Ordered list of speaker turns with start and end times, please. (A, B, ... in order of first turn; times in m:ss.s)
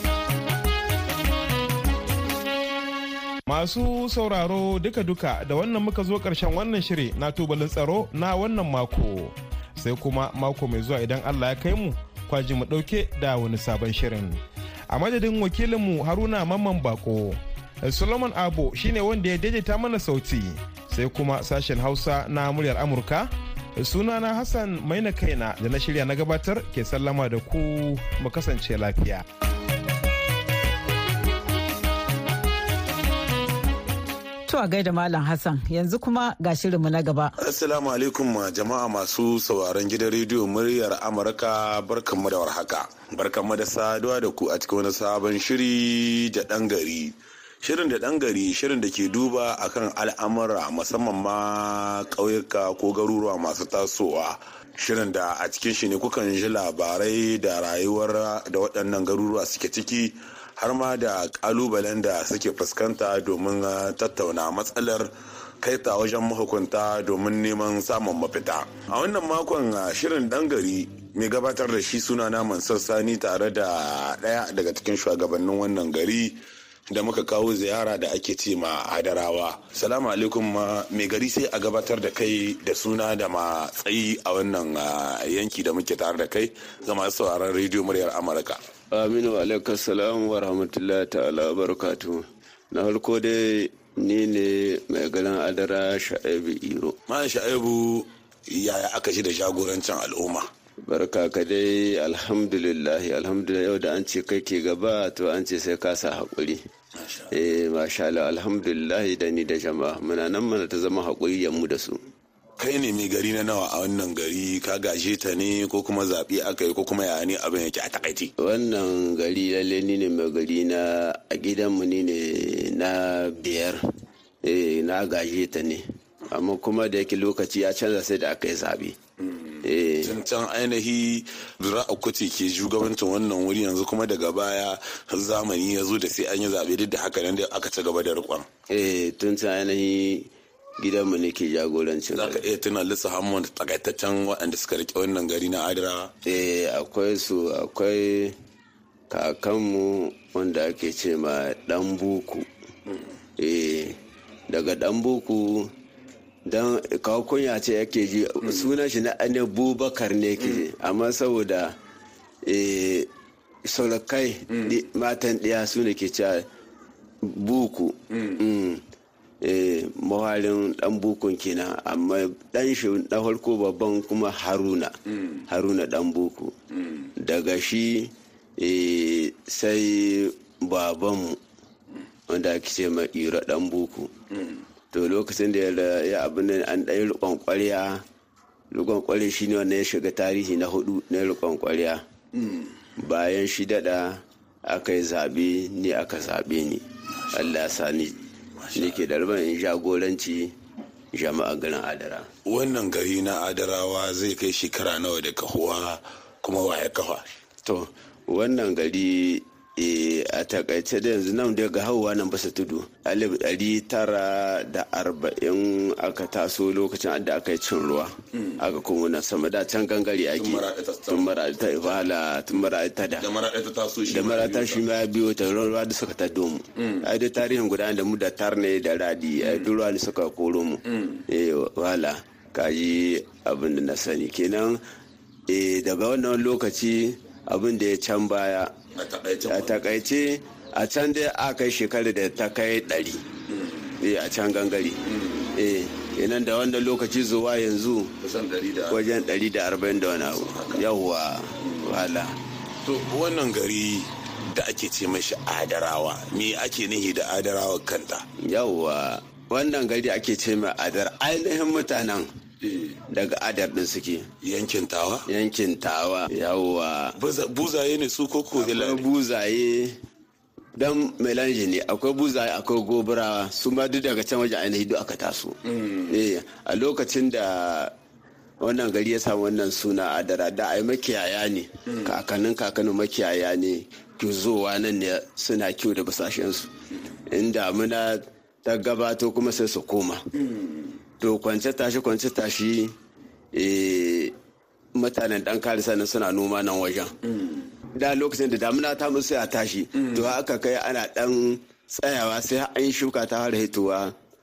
0:03.5-0:29.2 A
0:34.5-0:37.3 B
0:37.4-1:16.4 C
1:16.9-1:28.6 C
1:28.9-1:37.0 D
1:37.1-1:40.5 C
1:40.9-1:46.6 D
1:47.0-1:47.3 C
1:47.3-1:52.0 D
1:52.6-1:58.3 C
1:58.4-2:03.8 D
2:04.4-2:09.0 D
2:09.2-2:18.5 C
2:09.6-2:10.2 D
2:18.7-2:22.4 D
2:22.1-2:26.1 C
2:26.2-2:28.4 D
2:29.1-2:32.5 D
2:33.4-2:34.0 D
2:34.5-2:35.7 D
2:36.5-2:41.8 D
2:42.5-2:43.1 D
2:43.7-2:46.4 D
2:47.3-2:48.8 D
2:48.1-2:48.4 C
2:49.4-2:54.9 D
2:55.1-2:55.4 C
2:55.5-2:56.5 D
2:56.8-2:57.1 C
2:57.2-3:01.4 D
3:02.3-3:04.1 D
3:04.9-3:08.0 D
3:08.7-3:12.0 D
3:13.0-3:18.2 D
3:17.1-3:18.0 C
3:18.6-3:19.0 C
3:18.8-3:20.5 D
3:21.1-3:22.3 D
3:22.4-3:27.3 C
3:27.6-3:43.3 D
3:40.4-3:42.0 C
3:43.2-3:44.8 C
3:44.1-3:54.8 D
3:46.8-3:47.1 C
3:49.4-3:49.7 C
3:50.9-3:51.2 C
3:55.5-3:58.7 D
3:59.0-4:00.0 C
3:59.4-4:03.2 D
4:03.5-4:03.8 C
4:04.0-4:05.0 D
4:05.0-4:05.5 C
4:05.6-4:08.1 D
4:08.2-4:09.3 C
4:08.9-4:12.4 D
4:10.1-4:10.9 C
4:11.6-4:11.9 C
4:12.8-4:18.2 C
4:18.4-4:22.3 D
4:22.6-4:23.0 C
4:23.1-4:24.3 D
4:24.4-4:25.3 C
4:25.3-4:27.2 D
4:27.2-4:29.0 C
4:28.5-4:30.0 D
4:30.8-4:35.6 D
4:35.7-4:36.2 C
4:36.1-4:37.9 D
4:38.6-4:46.7 D
4:41.9-4:42.1 C
4:47.3-4:50.2 D
4:50.4-4:50.7 C
4:51.2-4:52.9 D
4:53.5-4:54.3 D
4:55.0-4:57.1 D
4:58.0-5:04.1 D
5:00.0-5:00.3 C